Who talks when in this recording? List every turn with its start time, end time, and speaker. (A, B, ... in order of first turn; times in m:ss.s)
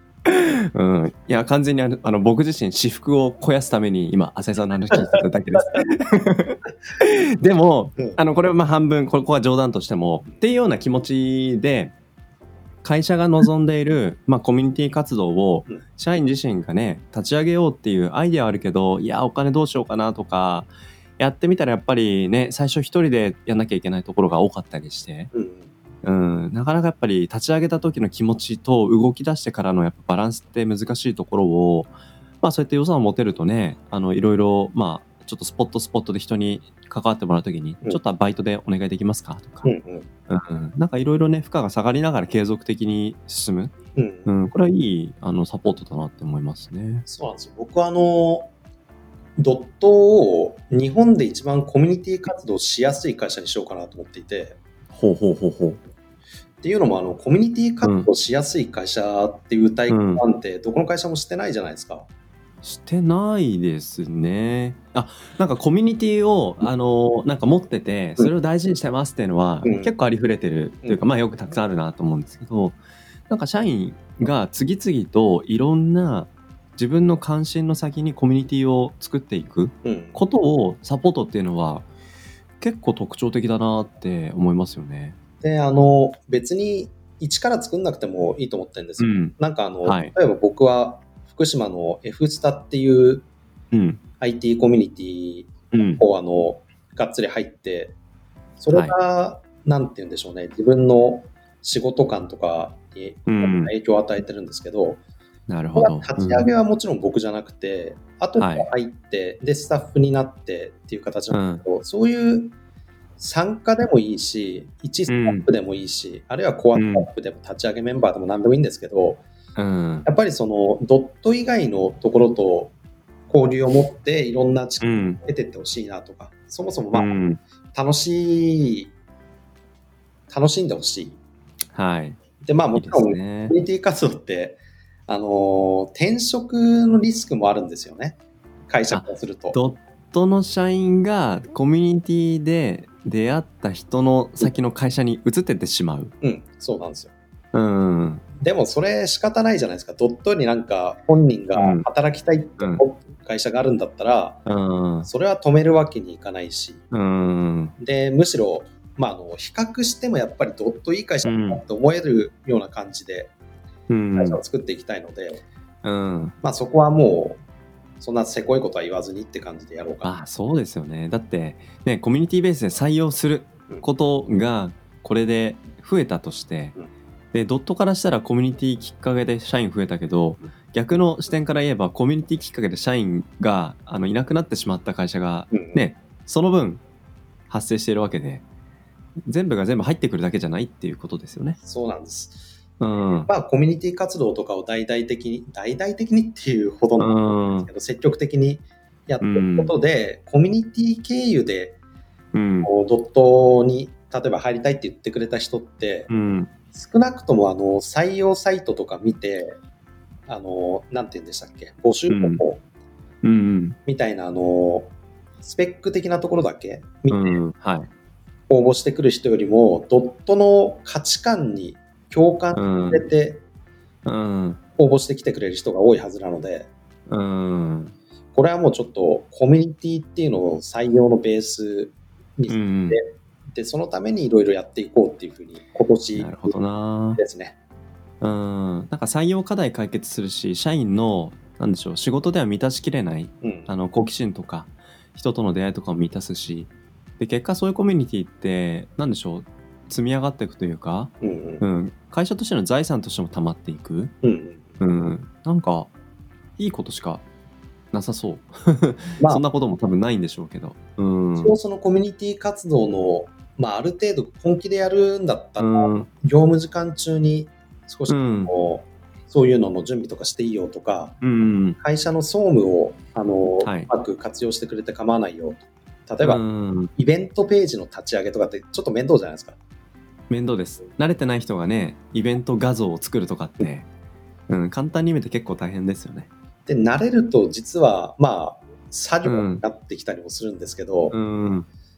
0:00.2-0:11.9 A
0:04.9-0:05.8 B
0:12.8-0:25.3 A
0:25.3-0:25.7 B
0:26.0-0:39.7 A
0:39.6-0:40.1 B
0:40.3-0:43.7 A
0:43.9-0:44.3 B
0:44.2-0:47.0 A
0:47.1-0:48.5 B
0:49.4-0:54.6 B
0:54.9-0:55.8 A
0:56.6-1:02.1 B
0:57.8-0:58.1 A
0:59.9-1:00.2 A
1:02.6-1:12.8 A
1:09.6-1:09.9 B
1:13.3-1:21.9 A
1:19.8-1:20.2 B
1:22.6-1:25.2 A
1:25.4-1:33.3 B
1:29.0-1:30.1 A
1:33.7-1:34.0 A
1:34.2-1:38.0 B
1:35.7-1:36.0 A
1:38.6-1:45.0 B
1:43.3-1:43.7 A
1:45.5-1:46.5 A
1:45.8-1:52.6 B
1:48.4-1:48.7 A
1:51.3-1:51.6 A
1:53.2-1:59.2 B
1:55.1-1:55.5 A
1:56.7-1:57.1 A
1:59.6-2:00.1 A
2:00.0-2:02.7 B
2:03.3-2:07.1 B
2:04.8-2:05.2 A
2:06.9-2:07.4 A
2:07.7-2:08.9 B
2:10.3-2:11.2 B
2:11.7-2:12.2 A
2:12.4-2:19.6 B
2:12.7-2:13.5 A
2:18.9-2:26.1 A
2:26.2-2:27.1 B
2:27.5-2:28.2 A
2:28.4-2:34.4 B
2:31.5-2:31.8 A
2:32.6-2:32.8 A
2:34.4-2:35.1 A
2:35.0-2:36.8 B
2:36.9-2:37.7 A
2:37.8-2:43.3 B
2:41.2-2:41.6 A
2:43.9-2:44.4 A
2:44.2-2:45.4 B
2:45.8-2:46.4 A
2:46.4-2:47.4 B
2:48.0-2:50.1 B
2:50.0-2:56.7 A
2:57.3-3:06.8 A
3:05.5-3:05.8 B
3:07.5-3:08.4 A
3:09.3-3:11.6 A
3:11.6-3:12.5 B
3:12.8-3:13.3 A
3:13.2-3:21.8 B
3:17.0-3:17.7 A
3:19.2-3:19.7 A
3:22.3-3:22.7 A
3:22.6-3:26.1 B
3:26.1-3:26.5 A
3:26.7-3:29.6 B
3:30.3-3:32.6 B
3:32.1-3:32.4 A
3:33.2-3:33.8 A
3:33.8-3:37.4 B
3:37.1-3:37.9 A
3:38.5-3:43.4 B
3:42.5-3:43.0 A
3:44.0-3:44.6 A
3:44.8-3:46.7 B
3:47.1-3:47.9 A
3:48.3-3:56.5 B
3:52.5-3:53.0 A
3:56.2-3:57.2 A
3:57.2-3:57.6 B
3:58.2-4:14.1 A
4:03.4-4:03.7 B
4:11.2-4:11.6 B
4:14.2-4:14.8 B
4:14.8-4:15.9 A
4:16.6-4:17.2 A
4:17.9-4:21.5 A
4:21.4-4:31.1 B
4:25.6-4:26.1 A
4:28.1-4:28.5 A
4:31.2-4:31.8 A
4:31.8-4:36.4 B
4:33.6-4:33.9 A
4:36.2-4:36.9 A
4:37.0-4:39.6 B
4:40.3-4:43.9 A
4:44.5-4:46.3 A
4:46.6-4:51.1 B
4:49.2-4:49.6 A
4:51.1-4:51.7 A